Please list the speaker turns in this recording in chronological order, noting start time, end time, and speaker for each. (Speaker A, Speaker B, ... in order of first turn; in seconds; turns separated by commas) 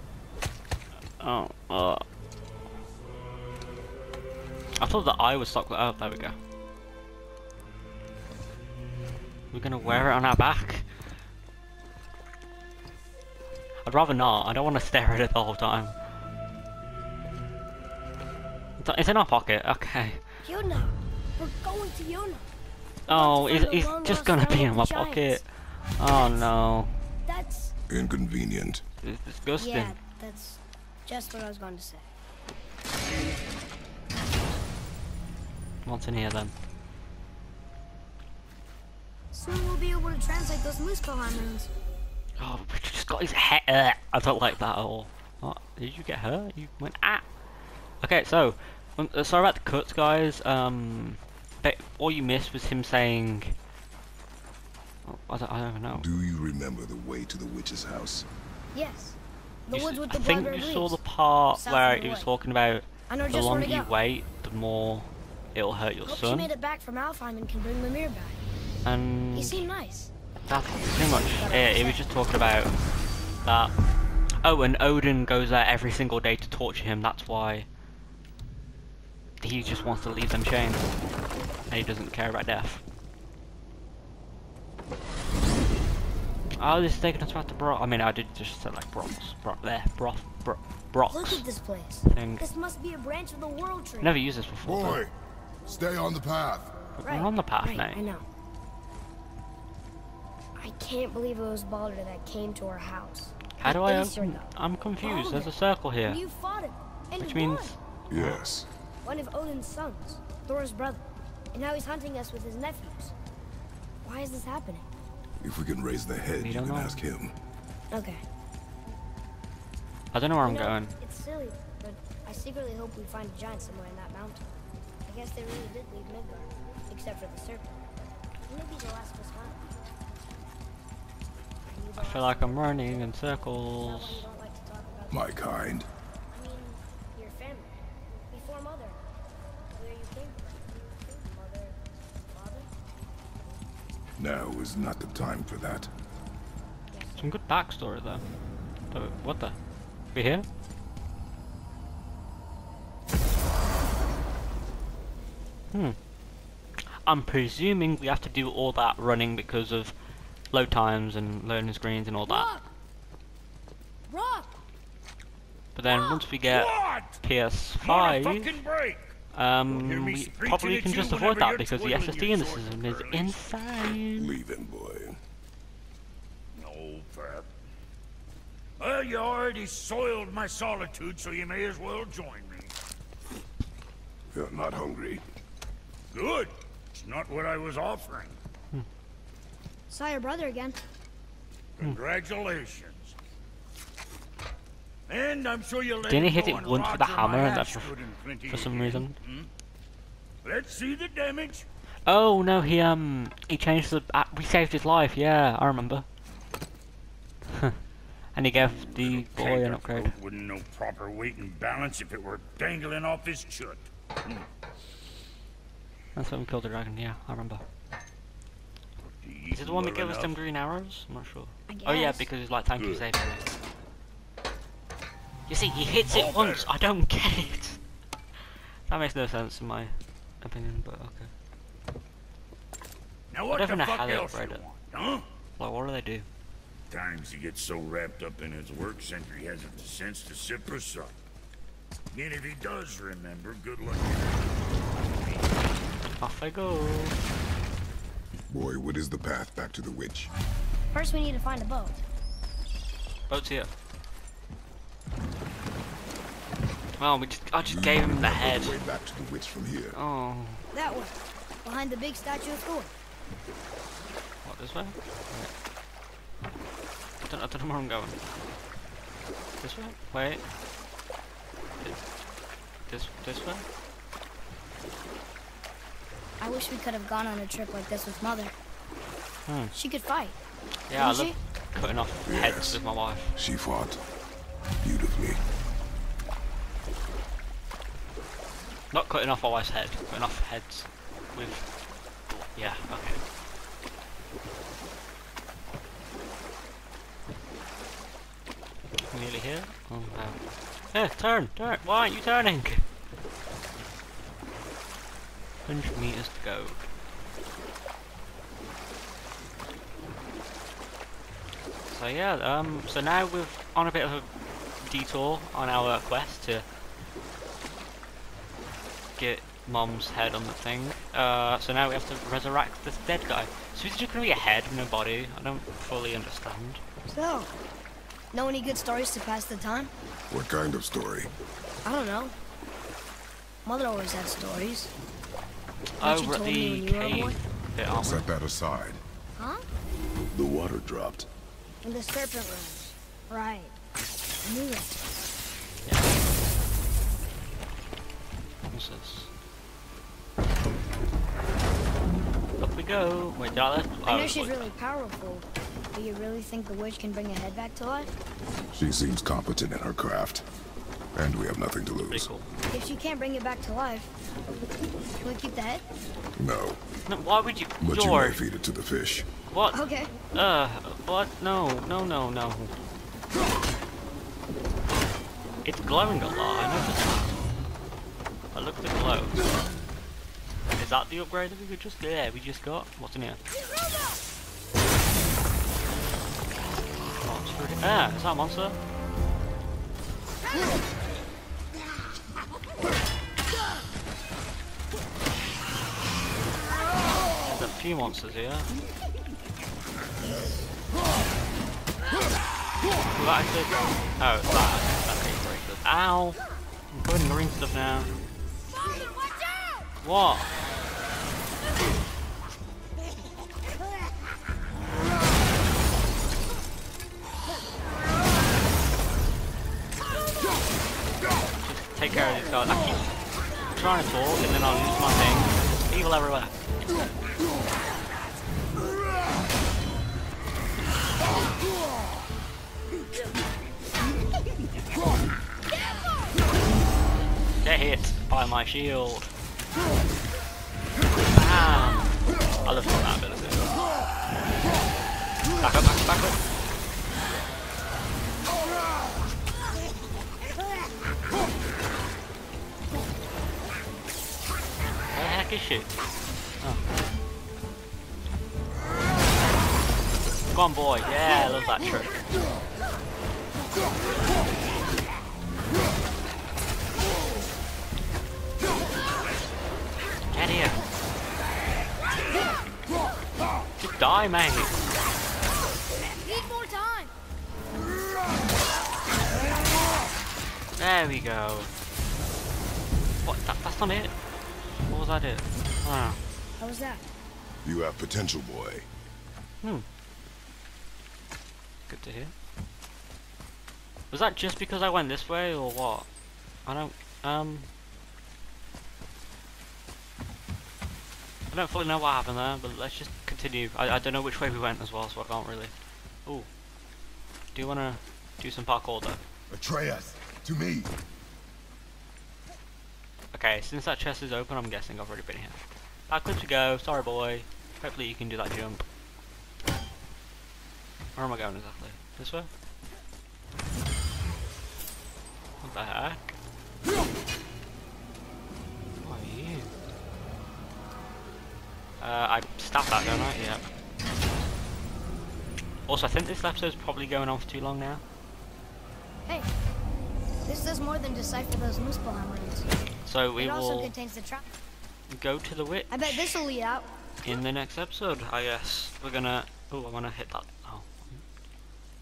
Speaker A: 1.2-2.0, Speaker A: 4.8-6.4, Speaker A: 9.5-10.9, Speaker B: 9.8-10.2, Speaker A: 13.8-15.9, Speaker A: 18.8-20.2, Speaker C: 20.4-22.5, Speaker C: 23.1-25.4, Speaker A: 23.1-26.9, Speaker C: 26.1-26.4, Speaker C: 27.3-27.8, Speaker B: 27.9-28.8, Speaker A: 29.0-29.9, Speaker C: 29.6-32.1, Speaker A: 35.9-36.5, Speaker C: 39.3-41.7, Speaker A: 42.4-47.2, Speaker A: 48.0-53.5, Speaker A: 55.0-56.1, Speaker B: 55.9-58.3, Speaker C: 58.7-61.0, Speaker A: 59.7-66.5, Speaker C: 61.5-62.3, Speaker C: 63.1-63.9, Speaker C: 66.0-68.4, Speaker A: 68.8-69.7, Speaker C: 69.3-70.1, Speaker A: 70.5-72.8, Speaker C: 71.0-72.1, Speaker A: 73.4-73.7, Speaker A: 74.4-77.7, Speaker A: 79.4-80.9, Speaker A: 81.7-82.8, Speaker A: 86.6-91.5, Speaker C: 91.1-94.1, Speaker A: 92.1-92.4, Speaker A: 94.0-95.0, Speaker B: 94.6-95.1, Speaker B: 95.7-96.8, Speaker A: 97.0-98.0, Speaker C: 97.0-98.2, Speaker C: 100.6-104.5, Speaker A: 103.6-106.2, Speaker C: 105.0-105.5, Speaker C: 106.0-107.8, Speaker A: 107.2-108.4, Speaker B: 108.1-108.7, Speaker C: 109.0-113.1, Speaker C: 114.0-114.9, Speaker B: 115.4-117.3, Speaker A: 116.4-117.0, Speaker C: 117.9-118.2, Speaker A: 120.1-120.9, Speaker C: 120.4-124.5, Speaker C: 125.0-127.8, Speaker C: 128.5-129.7, Speaker C: 131.7-135.3, Speaker A: 132.0-134.3, Speaker B: 135.1-135.9, Speaker C: 136.3-139.0, Speaker C: 139.7-142.7, Speaker B: 144.2-145.9, Speaker C: 146.9-147.3, Speaker A: 147.2-148.2, Speaker A: 148.9-149.6, Speaker A: 150.1-150.5, Speaker A: 155.7-156.0, Speaker A: 156.9-159.9, Speaker A: 160.5-162.5, Speaker C: 162.3-162.7, Speaker C: 164.1-164.5, Speaker A: 165.8-168.6, Speaker D: 166.5-167.2, Speaker D: 167.8-169.1, Speaker A: 169.3-174.3, Speaker D: 169.7-173.4, Speaker B: 174.2-175.2, Speaker D: 176.5-177.5, Speaker D: 178.8-182.7, Speaker B: 184.3-185.2, Speaker D: 186.1-188.4, Speaker C: 189.9-190.8, Speaker D: 191.8-193.2, Speaker D: 195.1-199.5, Speaker A: 196.1-197.9, Speaker A: 198.5-199.2, Speaker D: 200.4-201.7, Speaker A: 202.1-206.1, Speaker A: 207.5-207.8, Speaker A: 208.3-210.1, Speaker D: 208.6-214.5, Speaker A: 216.2-217.6, Speaker D: 219.0-220.4, Speaker A: 219.5-223.4, Speaker C: 221.7-222.3, Speaker D: 222.8-223.0, Speaker A: 225.5-227.8, Speaker D: 226.1-226.7, Speaker A: 228.9-231.3, Speaker D: 233.3-235.2, Speaker A: 233.5-234.6, Speaker A: 235.6-236.3, Speaker D: 236.9-241.1, Speaker D: 242.1-244.5, Speaker A: 246.2-247.2, Speaker B: 248.5-250.3, Speaker C: 250.9-252.0, Speaker A: 253.3-253.7, Speaker A: 257.0-258.8, Speaker B: 257.6-260.0, Speaker A: 259.9-260.7, Speaker C: 260.7-262.9, Speaker A: 264.4-265.5, Speaker A: 267.2-268.2, Speaker A: 269.6-270.4, Speaker A: 272.9-273.7, Speaker C: 276.4-278.6, Speaker A: 279.5-279.7, Speaker C: 279.7-280.4, Speaker A: 280.9-283.4, Speaker C: 280.9-281.4, Speaker B: 282.3-282.8, Speaker B: 283.4-284.0, Speaker B: 284.8-285.4, Speaker A: 288.9-291.7, Speaker A: 292.3-293.2, Speaker A: 299.1-300.4, Speaker A: 300.9-302.9, Speaker A: 305.7-306.8, Speaker A: 311.9-316.6, Speaker A: 319.2-326.8, Speaker C: 327.1-327.5, Speaker C: 328.3-329.9, Speaker B: 330.3-331.3, Speaker C: 331.9-332.4, Speaker C: 333.6-334.9, Speaker A: 336.0-338.3, Speaker C: 336.0-337.4, Speaker B: 337.9-339.0, Speaker C: 339.4-339.6, Speaker B: 340.2-341.3, Speaker C: 341.8-343.8, Speaker C: 344.4-345.1, Speaker A: 348.7-349.3, Speaker A: 352.1-354.7, Speaker C: 354.1-358.1, Speaker B: 358.8-360.4, Speaker B: 361.1-362.3, Speaker A: 362.1-362.5, Speaker C: 362.7-364.1, Speaker C: 365.2-365.9, Speaker B: 366.4-366.8, Speaker A: 367.1-368.4, Speaker B: 367.8-369.3, Speaker A: 369.5-369.8, Speaker C: 369.7-370.2, Speaker A: 370.3-372.8, Speaker A: 375.6-377.3, Speaker A: 378.5-379.4, Speaker A: 380.8-383.4, Speaker A: 387.2-388.8, Speaker A: 397.4-398.7, Speaker A: 403.1-406.4, Speaker A: 406.9-408.2, Speaker A: 410.0-410.5, Speaker A: 421.6-423.1, Speaker A: 423.7-426.5, Speaker A: 437.6-439.3, Speaker A: 441.3-443.7, Speaker A: 445.6-446.4, Speaker A: 455.1-455.9, Speaker A: 460.5-462.1, Speaker A: 470.3-470.8, Speaker A: 473.8-474.8, Speaker C: 476.2-477.1, Speaker A: 480.8-481.7, Speaker A: 483.2-484.1, Speaker A: 484.9-486.2, Speaker C: 486.6-487.1, Speaker B: 487.6-488.9, Speaker A: 491.9-492.3, Speaker A: 494.1-496.1, Speaker A: 496.7-497.7, Speaker A: 501.5-505.7, Speaker A: 507.6-509.2, Speaker B: 509.5-510.9, Speaker A: 513.3-518.9, Speaker A: 521.2-522.5, Speaker A: 525.6-526.2, Speaker A: 529.0-529.7, Speaker A: 532.0-533.6, Speaker A: 535.9-538.0, Speaker C: 540.5-542.7, Speaker A: 543.0-543.9, Speaker C: 543.4-544.4, Speaker A: 545.1-546.4, Speaker C: 545.9-546.9, Speaker A: 547.2-551.2